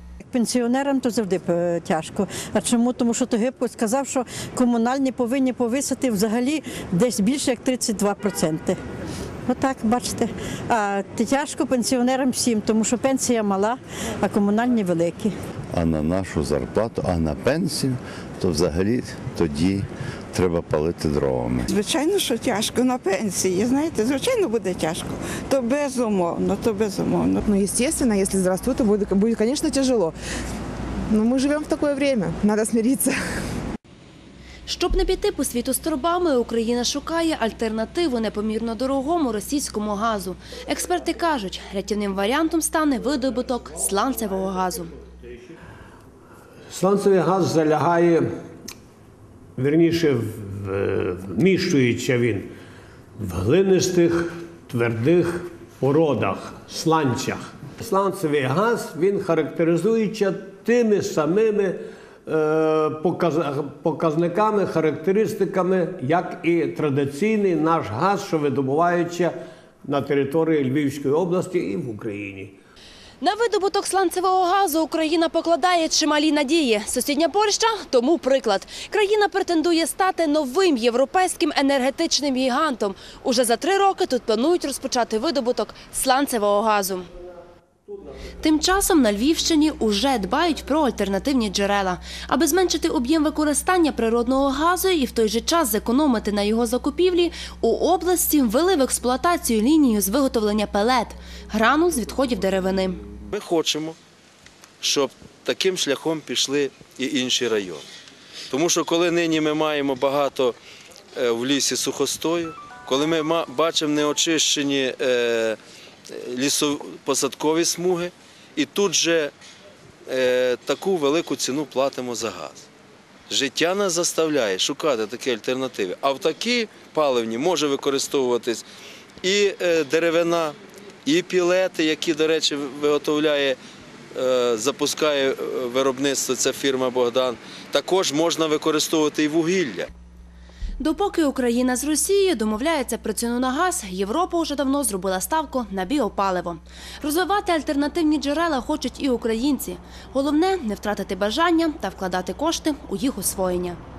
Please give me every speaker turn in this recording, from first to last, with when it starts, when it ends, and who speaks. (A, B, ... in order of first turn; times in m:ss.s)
0:00.3-0:08.8 A
0:09.5-0:15.3 A
0:15.7-0:21.7 B
0:21.7-0:27.4 C
0:27.5-0:30.2 D
0:31.1-0:33.2 D
0:34.7-0:44.9 E
0:46.9-0:48.2 F
0:49.6-0:50.2 F
0:51.3-0:52.4 F
0:53.5-0:54.1 F
0:54.7-0:55.3 F
0:55.9-1:01.7 F
1:03.2-1:09.3 F
1:09.9-1:12.5 F
1:13.2-1:27.1 E
1:28.4-1:43.0 E
1:43.3-1:44.0 G
1:44.8-1:47.8 G
1:48.5-1:50.6 G
1:51.2-1:55.6 G
1:56.1-1:59.3 G
2:00.1-2:02.7 G
2:03.3-2:08.7 G
2:09.2-2:13.6 G
2:14.1-2:19.9 G
2:20.8-2:33.8 E